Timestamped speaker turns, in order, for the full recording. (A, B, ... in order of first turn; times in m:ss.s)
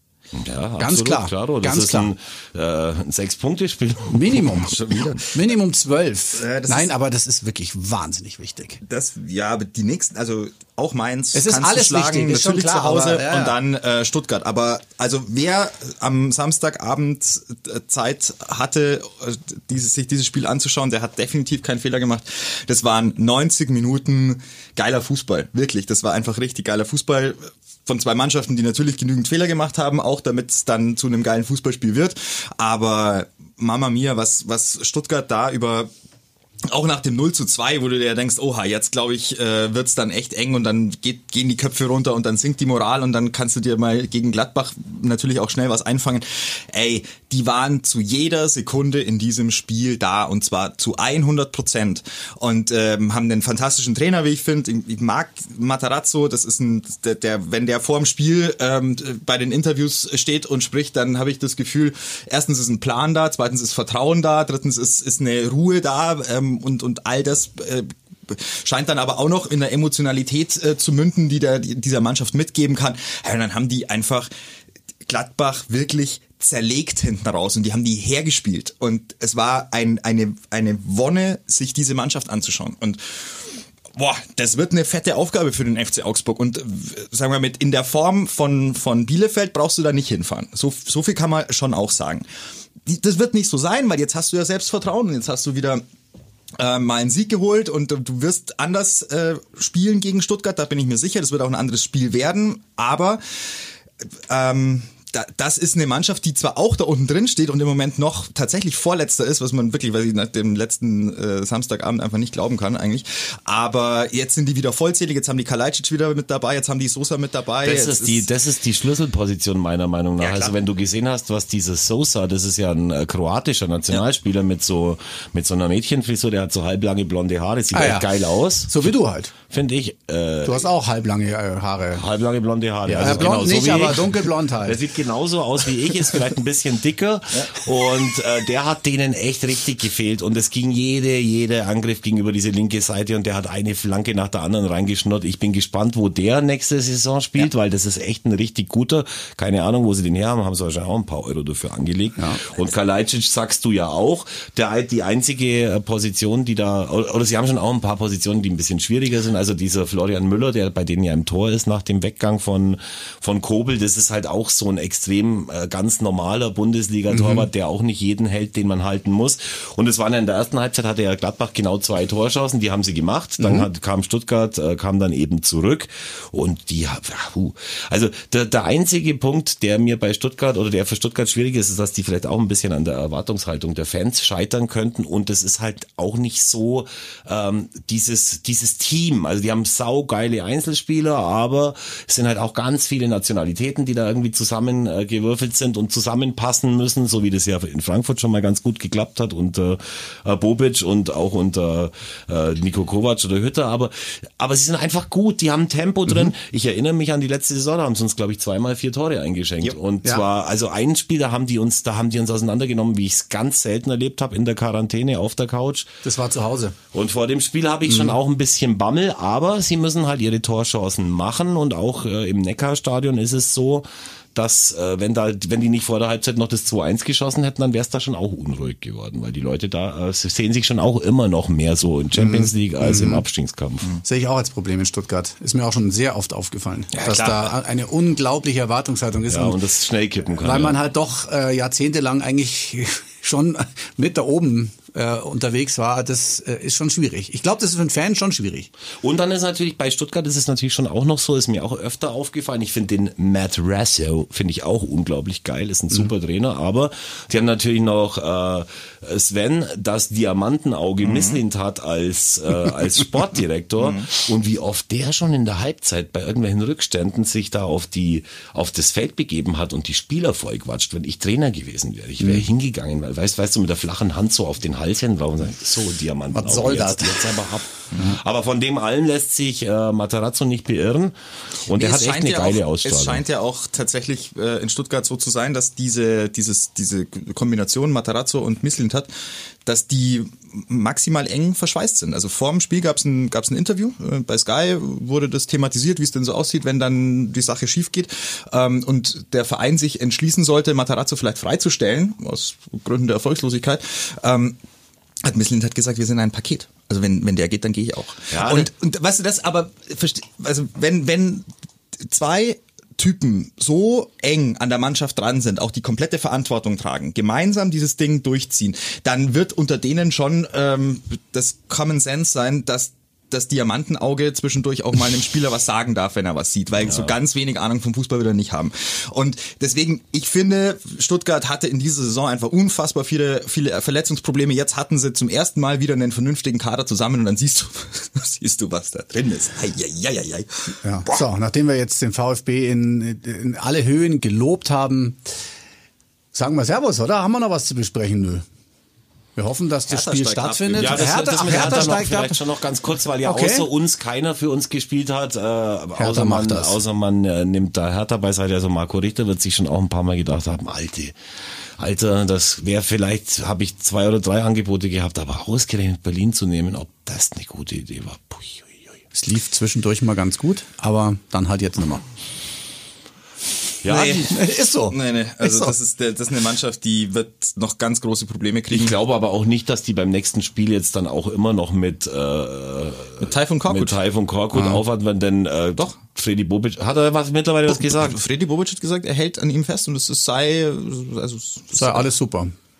0:00.3-0:04.4 A
0:00.8-0:02.1 B
0:04.1-0:08.8 B
0:06.3-0:06.9 C
0:08.8-0:35.9 C
0:11.3-0:13.5 B
0:36.7-1:14.3 C
1:15.0-1:32.2 C
1:32.8-1:35.8 C
1:36.6-1:43.2 C
1:44.3-1:58.2 C
1:57.6-2:08.9 A
2:00.2-2:00.5 C
2:07.7-2:08.1 B
2:08.6-2:09.3 B
2:09.5-2:10.6 A
2:10.4-2:12.0 B
2:11.9-3:36.0 A
2:12.8-2:14.8 B
2:47.1-2:47.4 B
2:53.4-2:53.7 B
3:36.0-3:36.8 B
3:36.9-3:53.9 A
3:52.2-3:53.2 B
3:54.0-3:59.6 B
3:56.9-3:57.5 C
3:59.3-4:00.7 A
4:00.4-4:08.7 B
4:09.0-4:43.2 A
4:21.0-4:21.4 C
4:23.8-4:24.1 C
4:36.3-4:37.4 B
4:41.7-4:49.1 C
4:49.6-5:04.6 C
5:05.2-5:11.5 C
5:08.3-5:08.7 A
5:12.0-5:40.8 C
5:26.8-5:27.2 A
5:40.8-5:45.2 B
5:46.3-5:48.4 B
5:49.4-5:52.4 B
5:49.9-5:51.6 C
5:50.8-6:01.2 A
5:53.2-5:53.7 B
5:56.0-5:56.8 B
6:01.8-6:08.9 A
6:09.1-6:12.0 B
6:13.8-6:14.3 A
6:13.8-6:15.7 B
6:14.9-6:19.0 C
6:18.7-6:28.2 A
6:23.2-6:24.0 C
6:24.5-6:24.8 B
6:27.8-6:32.1 C
6:31.8-6:32.5 B